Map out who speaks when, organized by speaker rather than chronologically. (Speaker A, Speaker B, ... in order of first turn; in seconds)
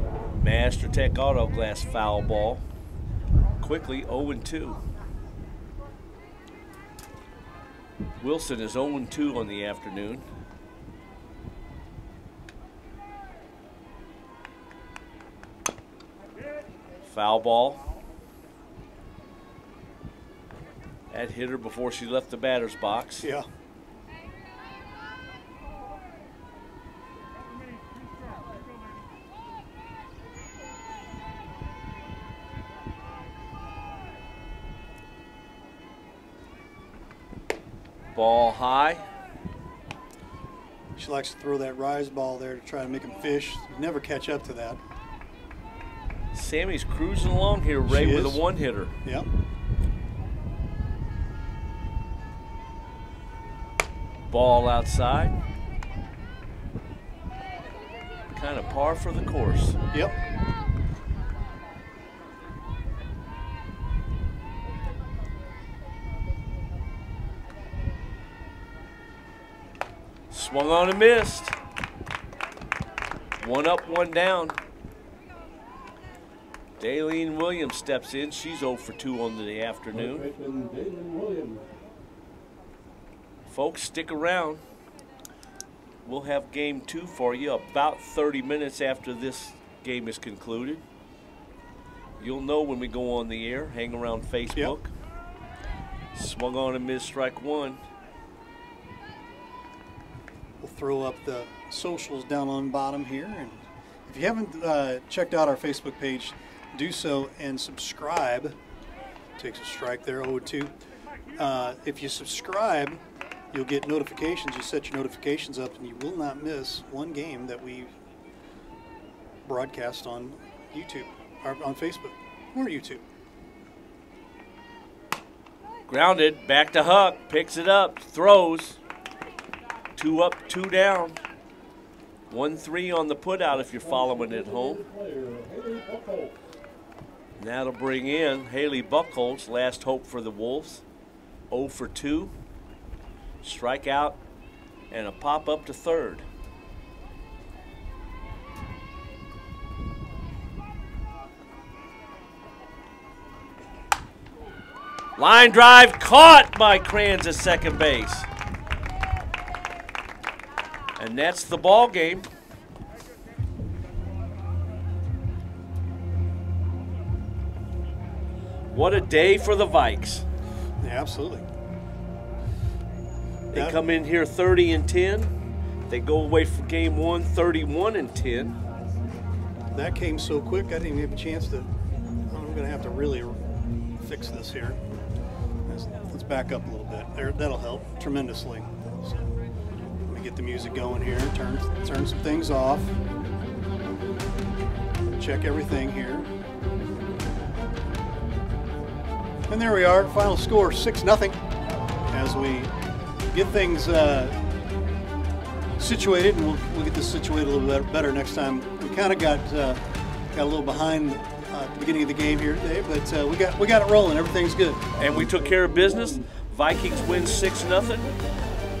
Speaker A: 0.3-2.6, 3.6-4.8, 8.2-10.2, 17.0-17.8, 21.1-23.3, 38.1-39.0, 46.3-48.9, 54.3-55.3, 58.3-59.8, 70.3-71.5, 73.4-74.6, 76.8-80.2, 83.5-84.6, 86.0-90.8, 92.2-94.9, 96.1-97.8, 125.9-128.8, 129.9-131.2, 132.3-134.8, 137.4-140.8, 141.5-142.3, 143.4-144.2, 144.9-146.2, 155.2-158.3, 161.0-162.3, 168.7-170.2, 173.5-175.3, 175.9-178.6, 215.0-218.1
Speaker B: 41.0-44.8, 47.9-48.4, 100.6-108.5, 109.4-110.7, 111.4-113.0, 113.5-117.9, 119.4-123.0, 170.8-171.4, 179.7-181.7, 182.3-183.4, 184.0-184.8, 185.7-189.2, 190.1-193.0, 195.1-196.3, 199.5-201.4, 202.1-202.7, 203.3-204.4, 205.8-209.8, 210.3-214.9
Speaker C: 79.9-81.6, 133.5-136.4, 215.2-216.1